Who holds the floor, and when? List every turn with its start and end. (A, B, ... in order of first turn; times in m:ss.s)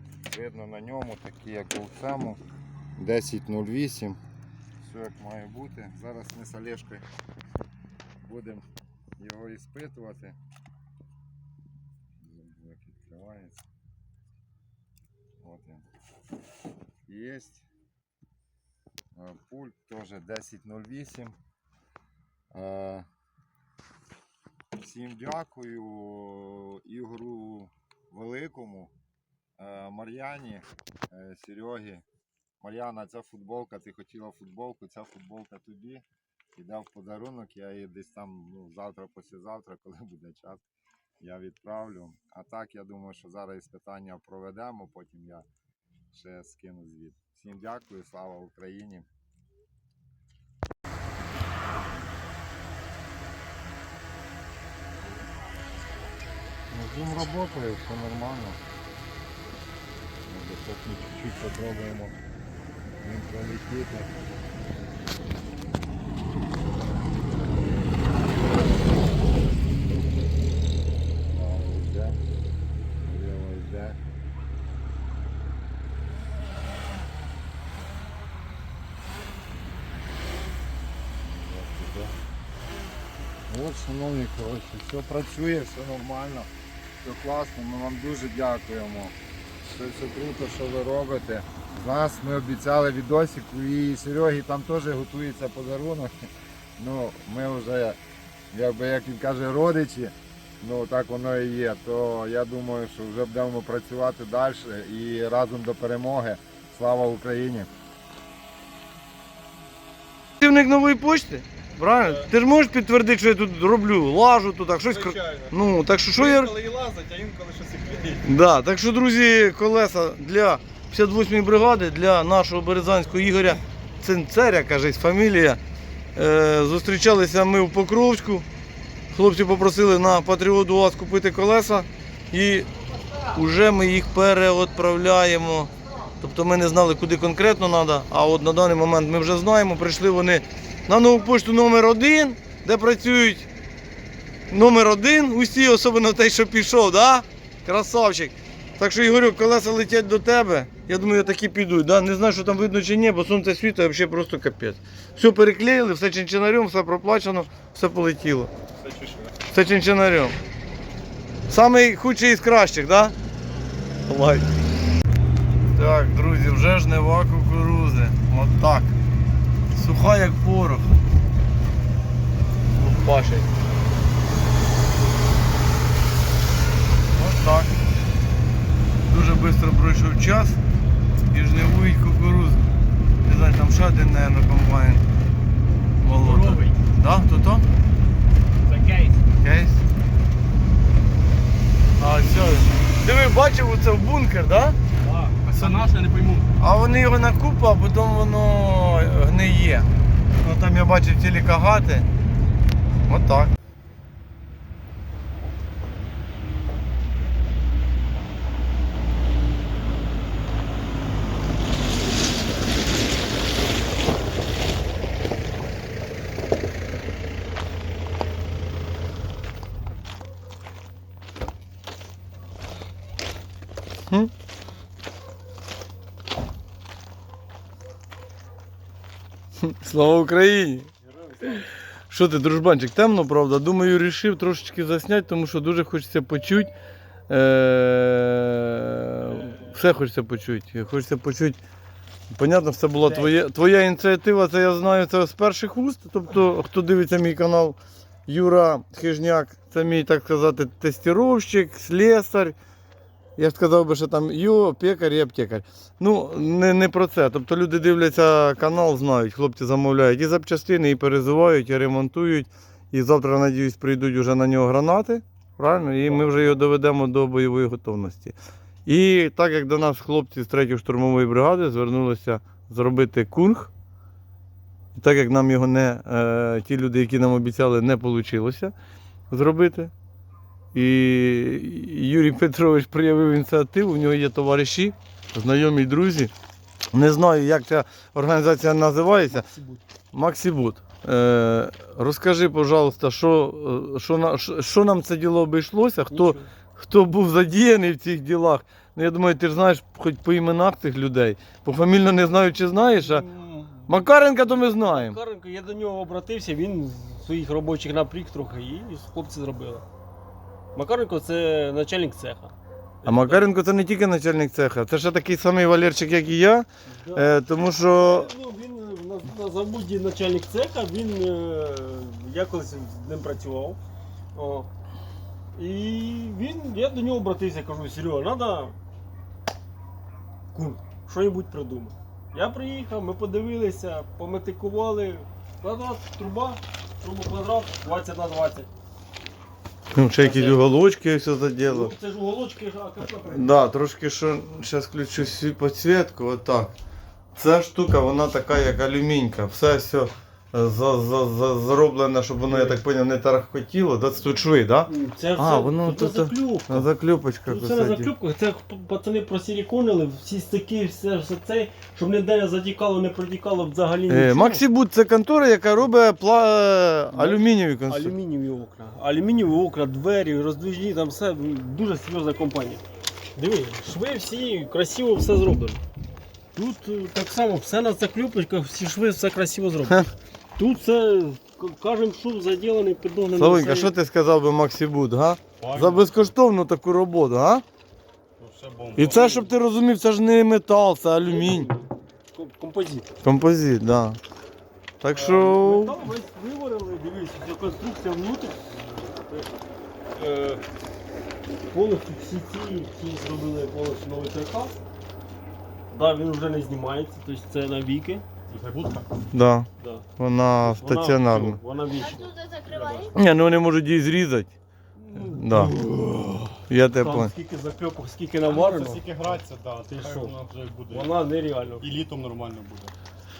0:00.3-0:02.4 A
0:03.0-0:04.2 A
0:04.8-0:07.0 A
0:08.2-0:08.6 A
0:09.2-0:10.4 A
0:12.2-0:13.6 A
0:15.4-0:15.8 A
0:17.1-0:17.6 A
0:19.1-0:21.4 A
0:22.5-0:23.0 A
0:24.8-0:28.9 A
0:29.6-0:32.0 A
0:32.6-0:36.0 A
0:36.5-0:40.6 A
0:41.2-0:45.4 A
0:46.1-0:49.0 A
0:56.7-0:57.1 B
0:57.0-0:58.6 A
1:00.3-1:02.1 A
1:03.0-1:04.1 A
1:11.3-1:12.2 A
1:13.0-1:14.0 A
1:21.2-1:22.1 A
1:23.5-1:26.5 A
1:27.0-1:36.3 A
1:36.8-1:38.0 A
1:38.5-1:47.7 A
1:50.4-1:56.5 B
1:54.9-1:55.2 C
1:56.1-1:58.2 C
1:58.2-2:05.6 B
2:06.1-2:08.4 B
2:09.1-2:12.7 B
2:13.3-2:23.5 B
2:24.5-2:38.5 B
2:38.8-2:39.3 C
2:39.5-2:40.4 B
2:41.5-2:43.1 B
2:44.1-2:44.5 B
2:45.7-2:48.9 B
2:49.7-2:50.9 B
2:52.8-2:53.5 B
2:57.1-2:57.8 B
2:59.0-3:00.6 B
3:01.3-3:02.7 B
3:03.2-3:05.0 B
3:06.0-3:07.6 B
3:06.1-3:06.8 C
3:08.6-3:09.2 C
3:09.4-3:09.8 B
3:12.0-3:14.8 B
3:15.0-3:16.5 C
3:15.5-3:15.8 B
3:16.6-3:22.1 B
3:23.1-3:23.5 B
3:49.6-3:50.9 B
3:51.0-3:51.6 D
3:52.1-3:56.7 B
3:57.3-4:01.6 B
3:59.2-3:59.8 D
4:02.3-4:12.6 B
4:03.0-4:03.3 D
4:13.4-4:28.3 B
4:26.0-4:26.6 D
4:28.8-4:33.7 B
4:34.9-4:38.7 B
4:39.3-4:39.9 B
4:40.7-4:46.3 B
4:46.9-4:49.4 B
4:49.3-4:49.8 D
4:50.1-5:03.2 B
4:56.1-4:56.5 D
5:02.9-5:04.0 D
5:03.9-5:05.2 B
5:04.6-5:09.8 D
5:10.7-5:13.5 D
5:13.0-5:18.3 B
5:16.9-5:23.8 D
5:24.3-5:24.7 D
5:25.5-5:28.8 D
5:30.5-5:38.7 D
5:39.9-5:41.9 B
5:40.1-5:40.6 D
5:41.6-5:43.6 D
5:43.2-5:46.7 B
5:47.3-5:58.1 B
5:52.5-5:52.8 D
5:54.9-5:56.9 D
5:57.4-6:04.6 D
6:04.1-6:08.1 B
6:07.1-6:12.8 D
6:13.3-6:15.8 D
6:16.5-6:23.9 D
6:23.3-6:27.6 B
6:25.6-6:26.2 C
6:28.4-6:29.4 C
6:29.0-6:31.7 B
6:29.0-6:29.5 D
6:31.2-6:33.1 D
6:33.2-6:34.2 B
6:35.0-6:36.0 B
6:35.1-6:39.5 D
6:40.1-6:40.6 D
6:41.7-6:44.8 D
6:45.9-6:48.2 D
6:48.5-6:49.1 C
6:49.3-6:51.6 B
6:49.8-6:50.0 D
6:50.6-6:53.1 D
6:53.1-6:54.5 B
6:55.0-7:00.4 D
6:55.2-6:55.7 B
6:56.7-6:57.3 B
6:58.4-7:01.1 C
7:00.9-7:01.8 D
7:01.8-7:02.9 C